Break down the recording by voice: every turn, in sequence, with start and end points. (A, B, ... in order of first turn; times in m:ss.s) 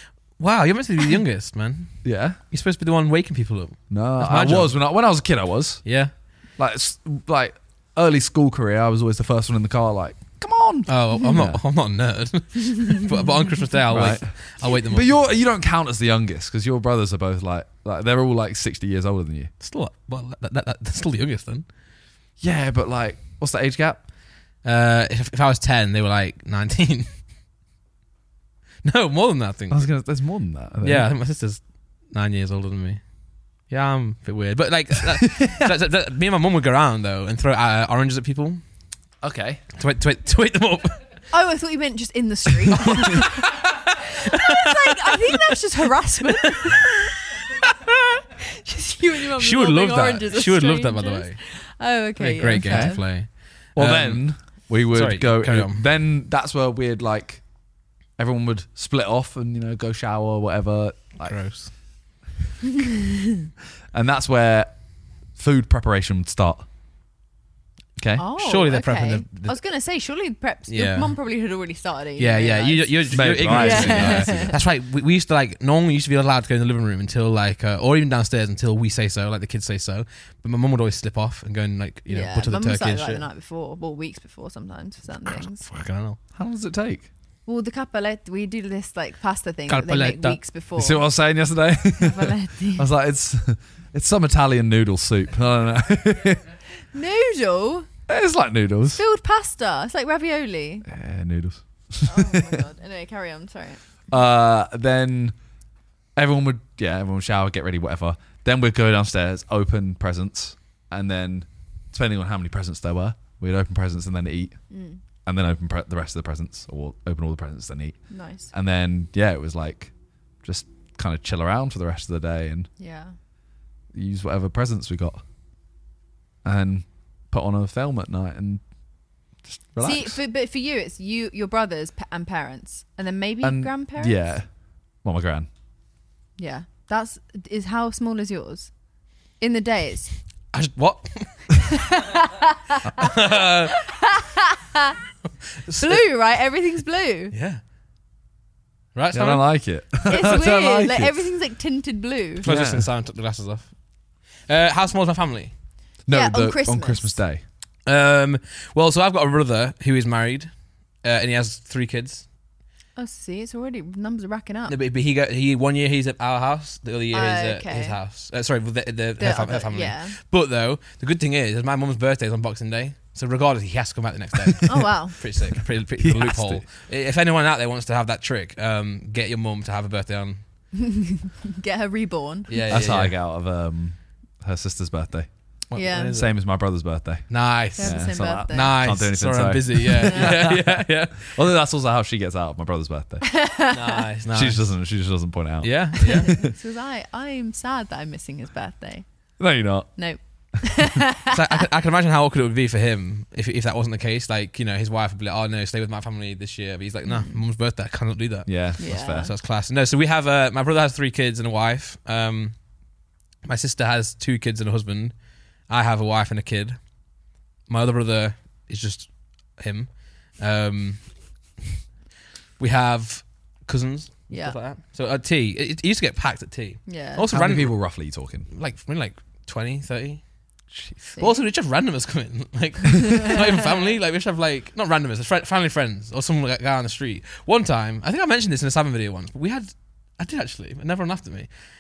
0:00.4-0:04.8 A
0:02.0-0:02.4 B
0:03.9-0:05.9 B
0:05.8-0:06.1 A
0:06.6-0:11.6 B
0:10.9-0:15.2 A
0:13.9-0:19.5 B
0:19.6-0:21.7 A
0:22.4-0:24.1 B
0:24.6-0:27.2 A
0:28.8-0:29.9 A
0:29.7-0:31.1 B
0:30.8-0:38.6 A
0:39.2-0:39.6 B
0:39.8-0:41.0 A
0:41.3-0:43.6 C
0:44.3-0:47.1 C
0:44.4-0:45.6 A
0:48.5-0:53.0 C
0:49.4-0:51.4 A
0:52.2-0:55.8 A
0:52.6-0:53.1 B
0:53.7-0:57.5 B
0:58.2-1:01.4 B
1:01.2-1:01.7 A
1:03.9-1:06.7 B
1:08.0-1:08.2 B
1:08.2-1:14.6 C
1:08.4-1:09.6 A
1:10.7-1:11.1 A
1:12.2-1:23.2 A
1:13.1-1:14.6 B
1:22.1-1:25.7 C
1:25.2-1:26.2 A
1:26.4-1:27.1 B
1:27.5-1:31.1 C
1:29.7-1:30.4 A
1:30.8-1:36.4 B
1:32.0-1:32.9 C
1:36.9-1:37.9 C
1:38.1-1:39.0 B
1:39.0-1:40.9 C
1:40.9-1:42.6 B
1:42.0-1:43.8 C
1:44.1-1:45.4 B
1:46.2-1:54.6 B
1:54.7-1:55.0 C
1:55.2-1:58.0 B
1:58.1-1:58.5 C
1:58.5-2:02.7 B
2:02.8-2:03.1 C
2:03.9-2:05.2 B
2:06.4-2:08.6 B
2:09.5-2:10.2 B
2:09.8-2:14.3 C
2:13.4-2:14.5 B
2:15.0-2:15.5 B
2:16.4-2:18.7 C
2:19.4-2:20.2 C
2:20.5-2:21.7 A
2:21.6-2:23.2 C
2:23.0-2:23.8 A
2:23.7-2:25.0 C
2:25.6-2:26.0 A
2:25.8-2:27.4 C
2:27.3-2:27.6 A
2:29.0-2:29.5 A
2:29.1-2:31.2 B
2:30.0-2:30.4 A
2:30.1-2:32.5 C
2:32.4-2:32.9 B
2:32.4-2:33.7 A
2:34.4-2:35.5 A
2:36.1-2:37.4 B
2:36.1-2:37.2 C
2:37.9-2:42.3 A
2:43.0-2:44.8 C
2:44.7-3:00.4 A
2:47.1-2:48.0 C
2:49.2-2:50.2 C
2:54.7-2:55.2 C
2:56.0-2:56.6 B
3:00.7-3:02.5 C
3:02.5-3:03.2 A
3:02.7-3:05.3 B
3:05.7-3:06.3 A
3:05.8-3:06.2 C
3:06.1-3:13.4 B
3:07.3-3:11.4 A
3:07.8-3:09.0 C
3:10.1-3:10.4 C
3:13.3-3:14.0 C
3:13.7-3:14.6 A
3:14.3-3:16.5 B
3:15.6-3:16.3 A
3:16.0-3:19.1 C
3:19.4-3:20.0 B
3:20.0-3:21.3 C
3:21.3-3:32.6 A
3:27.0-3:27.4 C
3:28.5-3:29.3 B
3:28.8-3:29.3 C
3:33.4-3:36.8 A
3:37.7-3:41.1 A
3:42.6-3:48.0 A
3:44.3-3:44.6 C
3:46.9-3:47.3 C
3:47.3-3:48.5 B
3:48.5-3:50.2 A
3:51.2-4:01.5 A